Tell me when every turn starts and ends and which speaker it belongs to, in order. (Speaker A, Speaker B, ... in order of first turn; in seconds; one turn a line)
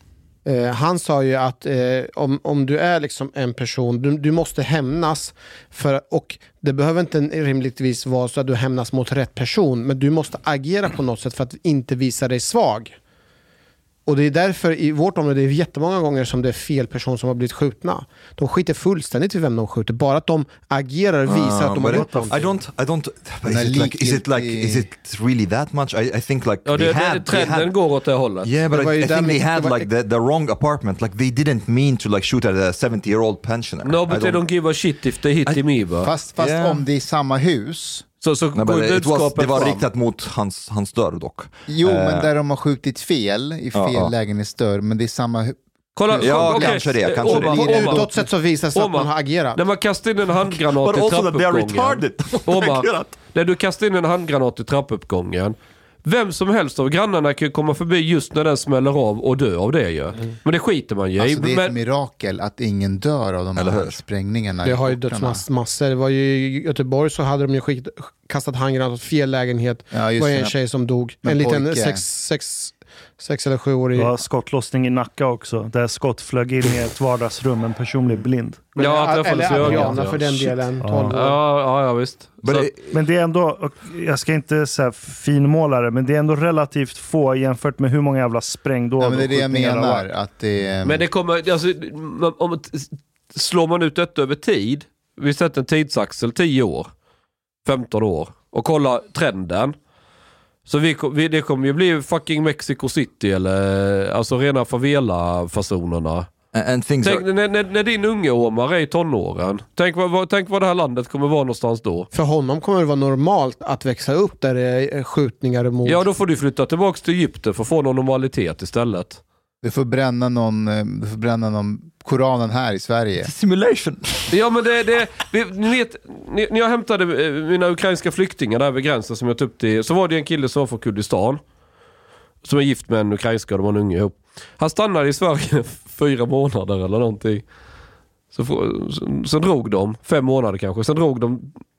Speaker A: 0.4-13.0
Speaker A: 14.1-22.4
Speaker B: 21.2-27.8
Speaker C: 21.9-22.4
Speaker D: 23.4-24.9
Speaker E: 26.6-28.5
Speaker B: 28.4-34.4
Speaker A: 28.7-29.9
Speaker E: 33.8-36.1
Speaker D: 36.0-38.0
Speaker B: 36.4-36.8
Speaker E: 38.2-39.9
Speaker B: 38.5-42.3
Speaker D: 41.7-47.1
Speaker B: 43.7-44.1
Speaker E: 46.0-61.8
Speaker B: 46.2-48.1
Speaker A: 47.2-49.6
Speaker B: 50.8-53.1
Speaker D: 61.2-65.4
Speaker B: 63.5-64.0
Speaker A: 64.6-74.1
Speaker D: 69.9-70.5
Speaker D: 71.2-72.0
Speaker C: 73.9-78.7
Speaker A: 78.7-81.4
Speaker E: 78.8-82.7
Speaker C: 79.5-80.0
Speaker C: 80.8-81.2
Speaker B: 82.4-82.9
Speaker C: 82.9-90.1
Speaker D: 89.0-91.0
Speaker E: 90.8-96.9
Speaker E: 97.6-99.8
Speaker E: 100.7-106.3
Speaker B: 106.5-107.2
Speaker E: 107.0-112.1
Speaker A: 112.1-116.0
Speaker E: 115.8-119.2
Speaker D: 119.6-123.3
Speaker B: 123.2-124.3
Speaker E: 124.3-131.4
Speaker E: 132.4-137.4
Speaker E: 138.3-141.6